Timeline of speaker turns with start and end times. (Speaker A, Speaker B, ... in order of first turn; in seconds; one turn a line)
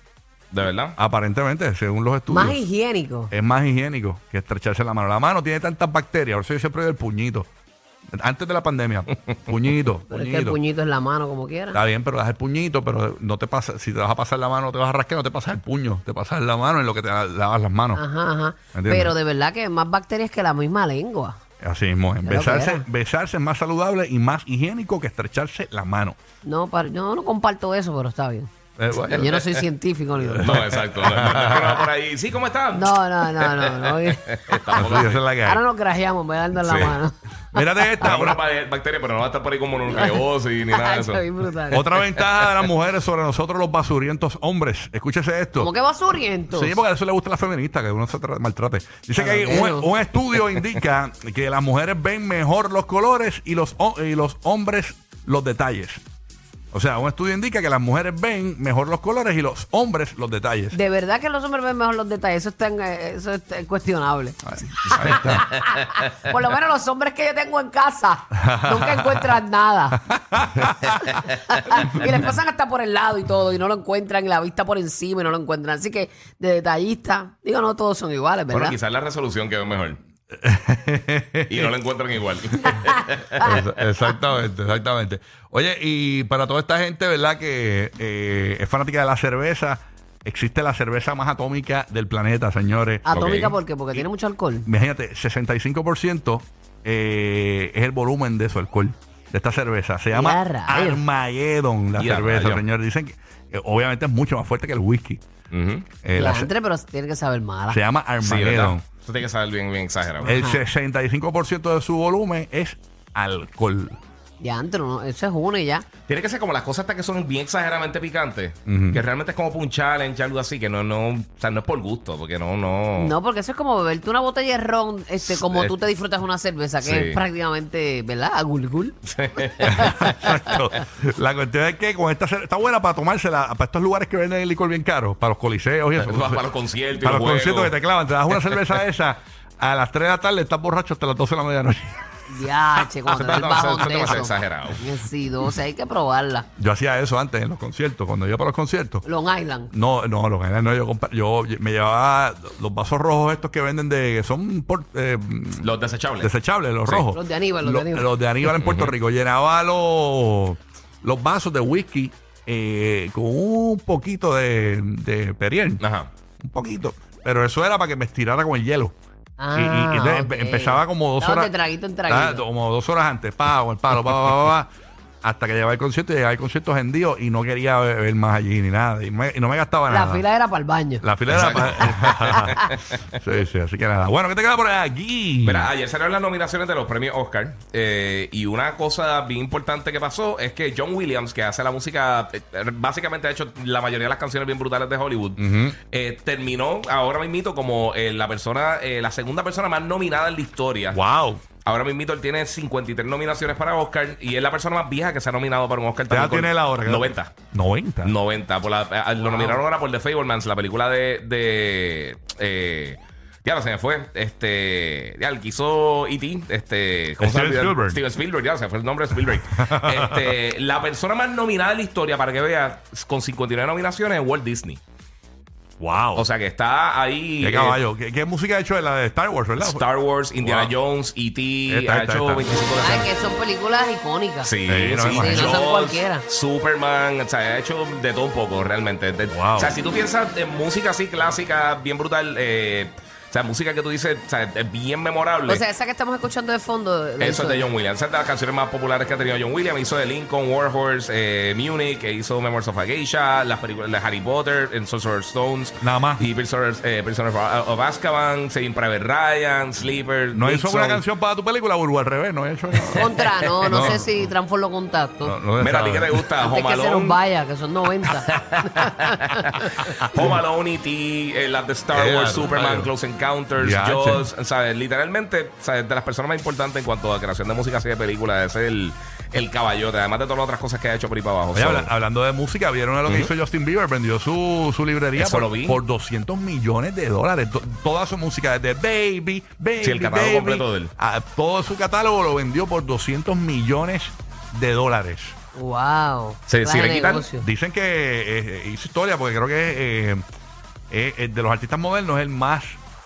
Speaker A: 0.5-1.0
Speaker B: 1.0-2.6
Speaker C: 2.3-3.3
Speaker B: 3.3-7.5
Speaker B: 8.1-10.6
Speaker C: 10.1-11.8
Speaker B: 11.7-18.0
Speaker C: 17.9-21.4
Speaker B: 18.7-19.2
Speaker B: 21.6-26.2
Speaker C: 22.2-22.9
Speaker C: 26.4-28.5
Speaker B: 28.8-29.3
Speaker C: 29.1-30.6
Speaker B: 30.2-31.8
Speaker A: 30.4-35.2
Speaker C: 32.7-38.1
Speaker B: 34.8-35.6
Speaker A: 36.6-37.0
Speaker B: 37.5-38.4
Speaker A: 38.0-41.2
Speaker C: 39.9-41.9
Speaker B: 41.7-45.7
Speaker C: 45.6-46.8
Speaker B: 46.5-56.0
Speaker C: 49.2-49.9
Speaker B: 56.7-60.8
Speaker C: 60.7-70.0
Speaker B: 64.5-65.5
Speaker B: 68.5-69.3
Speaker B: 70.3-71.0
Speaker C: 71.1-78.8
Speaker A: 78.5-80.0
Speaker B: 80.4-81.7
Speaker A: 81.5-83.5
Speaker B: 83.4-94.0
Speaker C: 93.0-94.7
Speaker A: 93.1-93.5
Speaker B: 94.7-105.2
Speaker C: 100.1-101.0
Speaker A: 102.0-102.6
Speaker A: 105.5-105.9
Speaker B: 106.0-106.5
Speaker C: 106.2-107.8
Speaker B: 107.7-108.8
Speaker A: 108.2-110.4
Speaker B: 110.2-114.0
Speaker C: 110.3-110.6
Speaker C: 114.4-115.8
Speaker A: 116.1-123.2
Speaker B: 118.7-119.0
Speaker C: 123.0-129.0
Speaker A: 125.2-125.7
Speaker A: 126.8-127.2
Speaker A: 129.1-130.2
Speaker B: 129.7-136.4
Speaker A: 136.0-137.8
Speaker B: 137.0-141.9
Speaker C: 142.3-146.5
Speaker A: 143.1-144.8
Speaker B: 146.6-149.1
Speaker C: 149.0-149.7
Speaker B: 149.7-155.7
Speaker A: 155.6-156.3
Speaker B: 156.2-165.8
Speaker C: 157.1-158.1
Speaker A: 158.6-158.9
Speaker A: 165.8-166.1
Speaker B: 166.4-169.0
Speaker C: 169.4-172.4
Speaker B: 169.6-171.5
Speaker B: 172.1-174.7
Speaker B: 175.2-180.3
Speaker C: 179.9-181.1
Speaker B: 181.0-185.7
Speaker A: 181.3-183.0
Speaker A: 185.4-201.0
Speaker B: 195.4-195.8
Speaker B: 200.9-201.4
Speaker A: 201.7-207.3
Speaker B: 206.1-208.1
Speaker A: 208.0-224.8
Speaker B: 217.2-218.0
Speaker B: 219.5-220.2
Speaker B: 225.8-226.3
Speaker A: 226.2-227.8
Speaker B: 227.4-229.8
Speaker A: 229.6-233.1
Speaker B: 230.4-230.7
Speaker B: 231.7-232.5
Speaker C: 232.8-234.5
Speaker A: 234.4-245.6
Speaker B: 234.7-235.6
Speaker C: 235.0-236.2
Speaker B: 239.3-239.7
Speaker C: 245.5-247.7
Speaker A: 247.2-261.0
Speaker B: 255.8-256.2
Speaker B: 260.3-263.1
Speaker A: 262.8-263.1
Speaker C: 263.0-265.4
Speaker B: 263.6-264.1
Speaker A: 263.6-263.9
Speaker B: 265.2-266.1
Speaker A: 265.6-267.2
Speaker C: 266.4-269.6
Speaker A: 268.3-281.9
Speaker B: 269.9-270.3
Speaker B: 271.9-272.9
Speaker B: 273.6-274.3
Speaker B: 281.5-295.4
Speaker A: 285.2-285.8
Speaker A: 289.8-290.9
Speaker C: 295.6-297.5
Speaker A: 296.5-297.3
Speaker B: 297.4-300.2
Speaker B: 300.9-302.8